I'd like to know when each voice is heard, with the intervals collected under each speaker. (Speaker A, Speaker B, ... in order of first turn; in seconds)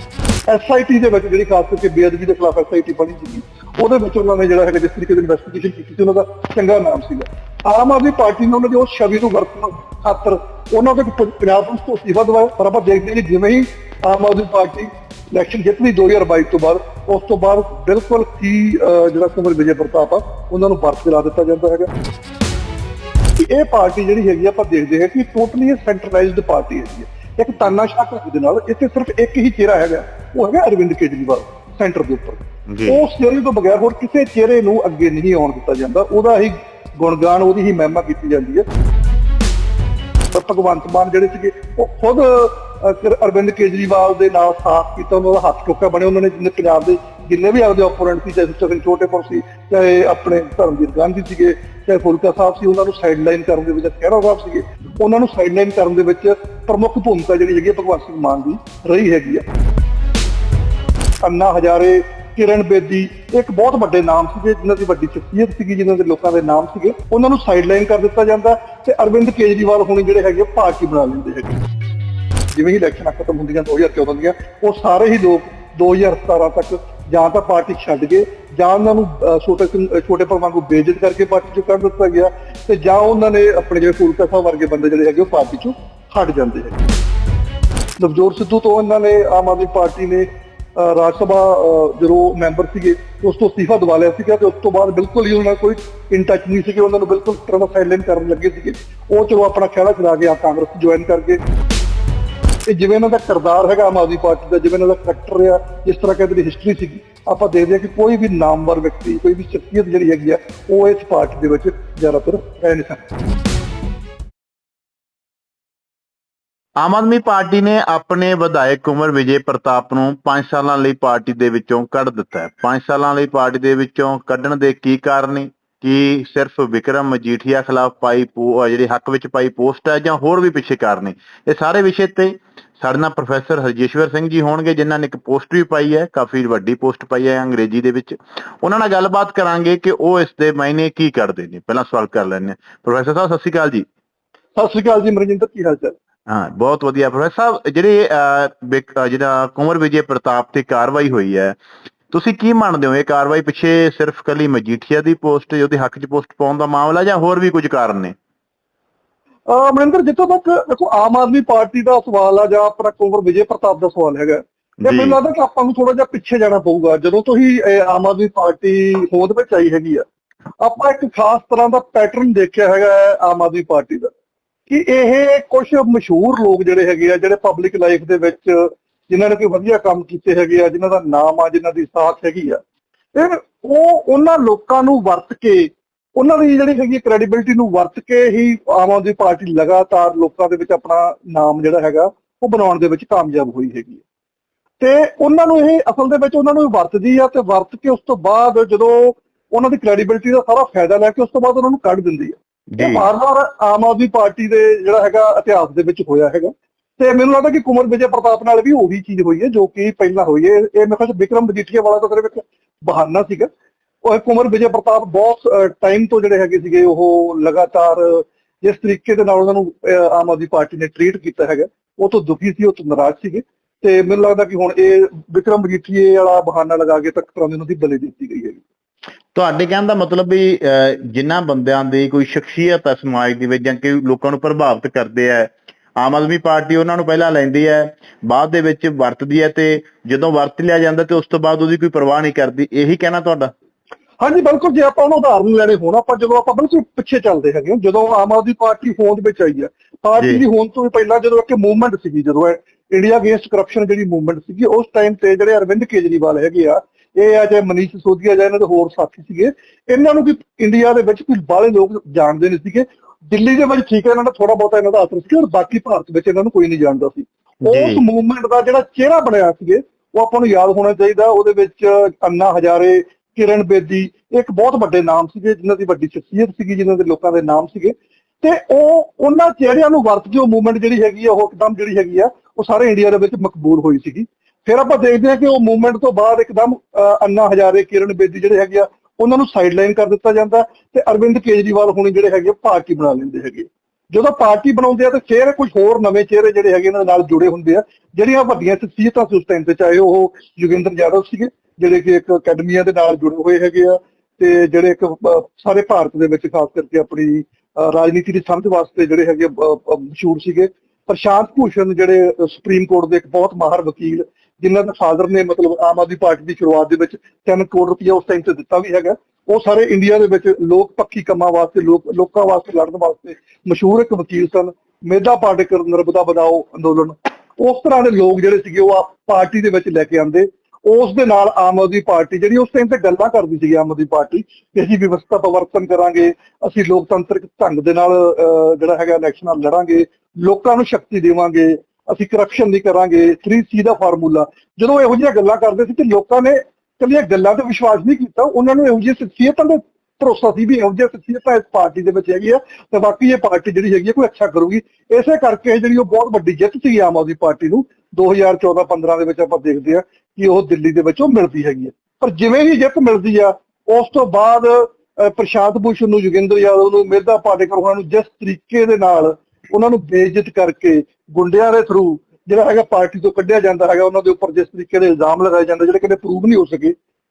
Speaker A: 0.5-21.9, 23.4-38.6, 40.3-59.4, 61.2-71.5, 72.5-86.8, 88.0-101.4, 102.7-113.0, 144.5-145.9, 159.5-170.0, 170.6-174.1, 174.7-182.6, 183.1-194.0, 194.8-213.5, 214.0-228.6, 244.2-376.9
Speaker B: 32.7-33.0, 116.8-143.8, 146.3-151.6, 152.1-158.1, 164.8-165.2, 202.7-203.1, 229.3-243.5, 267.6-268.0